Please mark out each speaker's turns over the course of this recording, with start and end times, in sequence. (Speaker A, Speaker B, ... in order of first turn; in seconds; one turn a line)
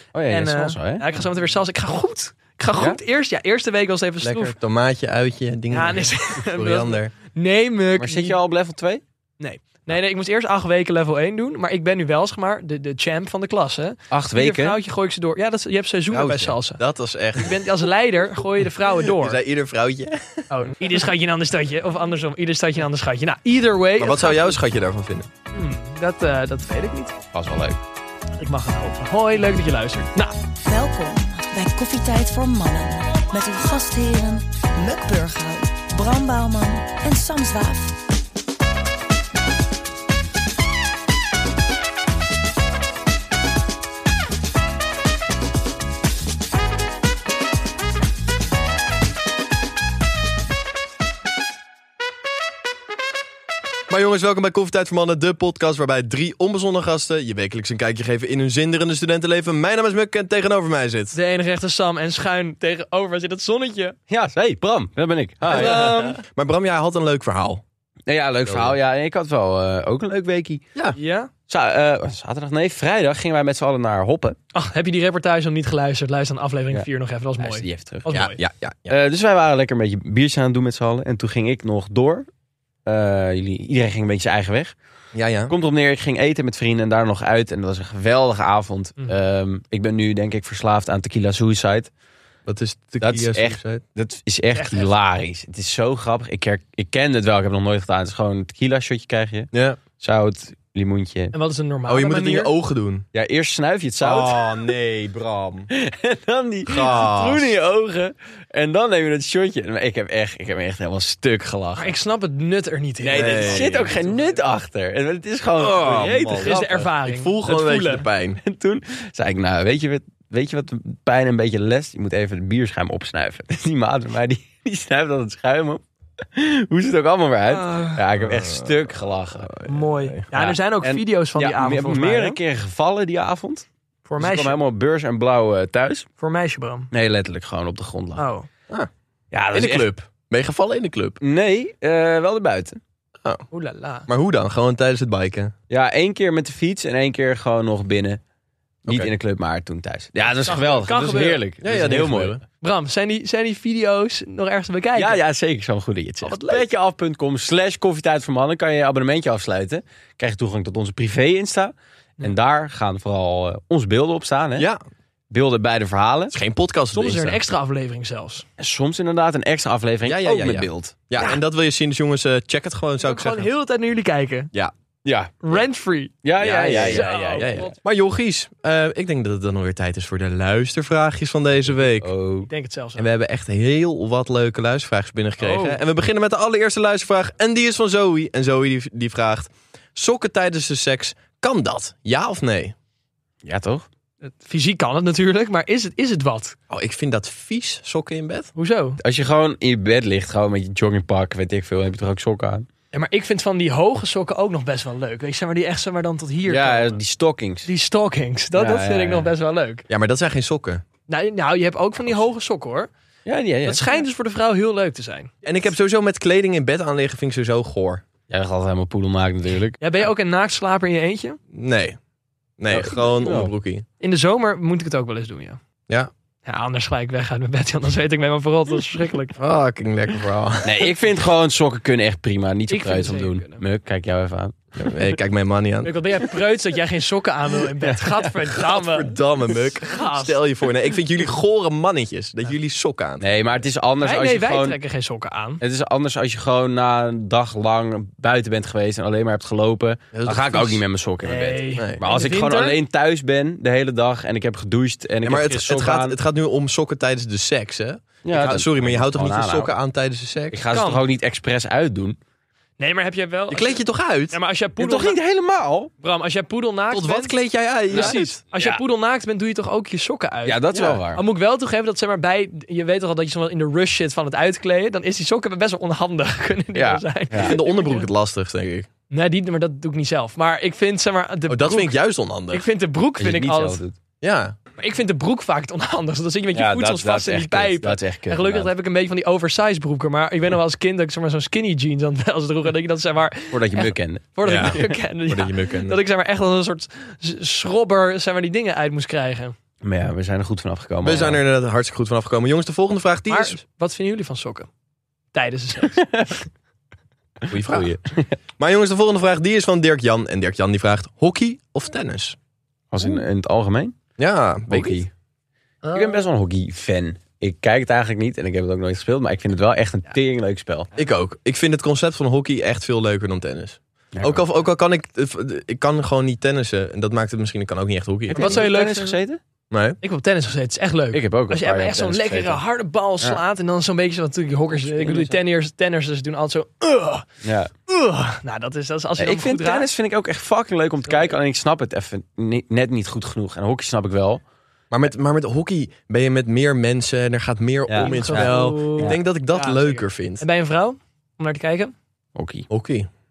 Speaker A: 0.1-1.0
Speaker B: 0.3-4.5
Speaker C: 4.2-7.1
Speaker B: 5.7-8.3
Speaker A: 8.0-9.0
Speaker B: 9.4-16.8
Speaker A: 14.1-14.8
Speaker C: 16.1-17.9
Speaker B: 17.4-19.4
Speaker C: 19.0-20.5
Speaker B: 20.5-24.6
Speaker C: 24.0-25.3
Speaker B: 25.5-27.1
Speaker A: 27.3-27.8
Speaker B: 28.4-30.4
Speaker D: 30.6-38.0
Speaker C: 53.9-61.2
Speaker B: 61.1-64.0
Speaker A: 64.1-66.1
Speaker B: 65.5-66.2
Speaker C: 65.5-67.6
Speaker A: 68.1-70.6
Speaker C: 68.5-68.8
Speaker B: 71.0-71.3
Speaker A: 71.5-74.4
Speaker B: 74.5-78.3
Speaker A: 77.4-78.1
Speaker C: 78.1-79.0
Speaker A: 78.9-82.3
Speaker A: 82.8-84.7
Speaker C: 85.1-85.5
Speaker A: 85.5-91.9
Speaker C: 92.5-93.8
Speaker A: 93.0-101.3
Speaker B: 94.5-94.9
Speaker C: 99.5-99.8
Speaker B: 101.3-102.5
Speaker C: 101.9-103.0
Speaker A: 103.1-104.4
Speaker C: 104.0-105.7
Speaker A: 105.7-111.9
Speaker C: 106.7-107.5
Speaker B: 111.8-114.3
Speaker C: 113.0-113.9
Speaker A: 113.2-116.9
Speaker C: 115.6-118.4
Speaker B: 115.8-118.0
Speaker A: 118.4-129.5
Speaker B: 127.5-128.0
Speaker C: 128.2-130.2
Speaker B: 129.7-132.4
Speaker A: 130.3-133.7
Speaker B: 134.1-134.6
Speaker A: 134.2-136.1
Speaker B: 136.2-136.9
Speaker A: 136.9-138.2
Speaker B: 138.2-138.5
Speaker A: 139.3-139.9
Speaker C: 139.5-141.2
Speaker A: 141.2-142.8
Speaker B: 143.5-144.1
Speaker C: 144.1-145.5
Speaker A: 145.7-148.2
Speaker A: 148.8-152.4
Speaker B: 150.3-151.4
Speaker C: 151.6-152.4
Speaker B: 152.6-155.2
Speaker A: 154.9-164.7
Speaker B: 156.2-156.6
Speaker A: 165.3-166.3
Speaker C: 166.3-167.4
Speaker B: 166.9-168.4
Speaker A: 168.6-170.9
Speaker C: 170.0-173.5
Speaker B: 173.0-174.5
Speaker A: 175.0-175.3
Speaker B: 175.4-177.7
Speaker A: 176.2-177.7
Speaker C: 176.4-182.1
Speaker A: 181.9-182.5
Speaker B: 182.5-183.1
Speaker C: 183.0-192.7
Speaker B: 185.4-185.8
Speaker A: 193.4-193.9
Speaker B: 194.2-196.6
Speaker C: 196.7-198.5
Speaker B: 198.6-199.0
Speaker A: 199.0-202.7
Speaker B: 202.9-207.0
Speaker A: 206.5-207.7
Speaker B: 207.7-209.8
Speaker A: 208.6-209.3
Speaker C: 209.9-210.8
Speaker B: 211.1-212.9
Speaker A: 213.2-213.8
Speaker B: 213.6-215.3
Speaker C: 215.4-218.0
Speaker A: 218.3-219.8
Speaker B: 219.8-221.4
Speaker C: 221.5-222.0
Speaker C: 222.6-223.8
Speaker A: 222.7-223.5
Speaker B: 224.0-225.6
Speaker B: 226.4-229.4
Speaker C: 229.4-230.9
Speaker A: 230.6-235.2
Speaker B: 232.7-233.6
Speaker C: 234.7-235.9
Speaker B: 235.8-239.1
Speaker A: 237.8-238.3
Speaker C: 238.6-243.2
Speaker B: 239.7-240.4
Speaker A: 243.2-244.8
Speaker B: 244.0-245.6
Speaker A: 245.6-256.2
Speaker C: 250.1-250.8
Speaker B: 251.2-252.8
Speaker C: 251.8-252.0
Speaker C: 255.2-260.6
Speaker A: 258.2-259.7
Speaker A: 260.5-262.2
Speaker B: 260.7-261.0
Speaker B: 262.8-263.8
Speaker C: 263.5-264.4
Speaker B: 264.3-265.2
Speaker A: 264.8-265.9
Speaker B: 266.0-267.3
Speaker C: 266.9-268.4
Speaker B: 267.9-270.6
Speaker A: 267.9-268.8
Speaker A: 270.4-271.2
Speaker C: 270.7-271.0
Speaker B: 271.1-278.1
Speaker A: 276.7-277.6
Speaker C: 277.4-278.9
Speaker B: 279.1-281.9
Speaker C: 281.5-282.6
Speaker B: 282.5-283.8
Speaker A: 283.2-283.9
Speaker C: 284.2-284.5
Speaker B: 284.8-299.5
Speaker A: 286.5-288.7
Speaker A: 293.5-294.7
Speaker C: 294.4-296.0
Speaker A: 299.8-301.4
Speaker C: 301.0-303.6
Speaker B: 303.3-304.7
Speaker B: 305.3-306.4
Speaker A: 305.8-306.4
Speaker A: 307.4-308.4
Speaker C: 307.5-308.0
Speaker C: 308.6-312.4
Speaker A: 312.9-314.0
Speaker C: 314.2-315.0
Speaker A: 314.7-315.1
Speaker B: 315.8-316.2
Speaker A: 315.9-320.9
Speaker C: 320.9-328.6
Speaker A: 324.1-324.4
Speaker A: 328.3-329.4
Speaker B: 328.3-329.2
Speaker C: 329.7-330.0
Speaker B: 330.0-337.2
Speaker A: 331.1-332.6
Speaker A: 334.7-335.4
Speaker A: 337.4-337.7
Speaker B: 337.9-339.9
Speaker A: 339.2-344.4
Speaker B: 341.1-341.3
Speaker C: 344.9-350.4
Speaker A: 347.9-349.2
Speaker B: 348.0-351.9
Speaker A: 352.4-352.7
Speaker C: 352.7-353.1